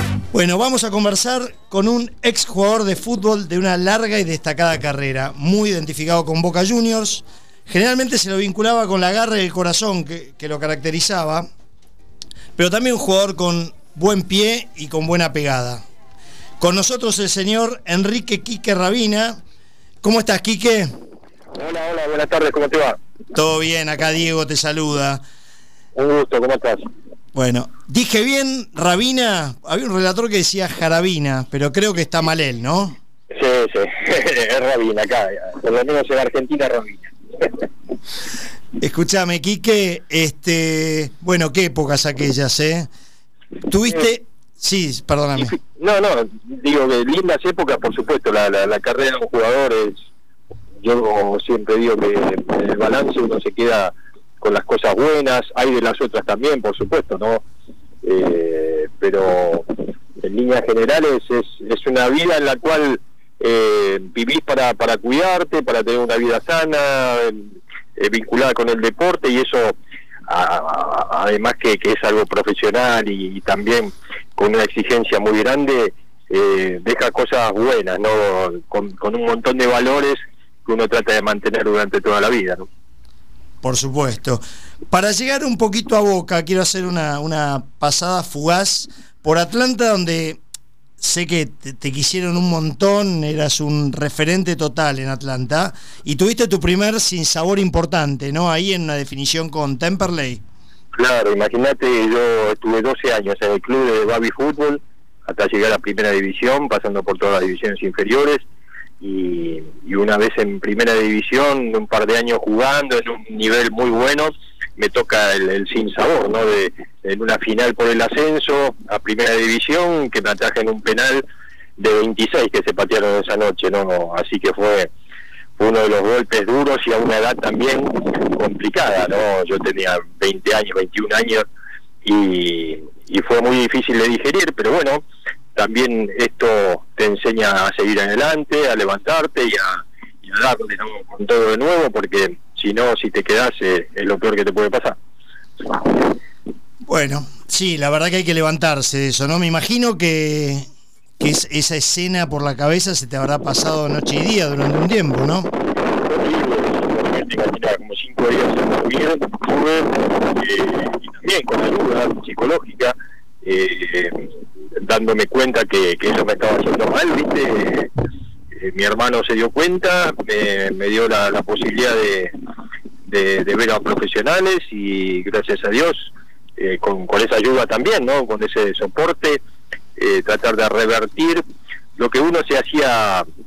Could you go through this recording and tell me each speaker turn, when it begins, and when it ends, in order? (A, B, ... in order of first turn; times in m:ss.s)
0:00.3-0:11.5 A
0:12.6-0:15.8 A
0:16.6-0:19.4 A
0:20.0-0:20.9 A
0:21.6-0:23.0 B
0:23.3-0:25.2 A
0:26.0-0:26.8 B
0:27.3-0:33.0 A
0:33.3-0:37.7 B
0:38.8-0:42.9 A
0:43.7-0:45.6 A
0:45.4-0:50.0 B
0:50.8-0:57.4 B
0:58.0-0:59.7 B
1:00.2-1:09.8 B
1:10.3-1:22.7 B
1:23.6-1:30.4 A
1:31.0-1:40.4 A
1:40.9-1:48.4 B
1:49.0-2:01.2 B
2:01.8-2:04.9 B
2:05.6-2:11.4 B
2:12.0-2:15.0 B
2:15.6-2:25.0 B
2:26.9-2:30.6 A
2:31.2-2:35.5 A
2:35.9-2:47.9 B
2:48.6-2:52.3 B
2:53.1-2:59.4 B
3:00.0-3:01.4 B
3:02.0-3:03.2 B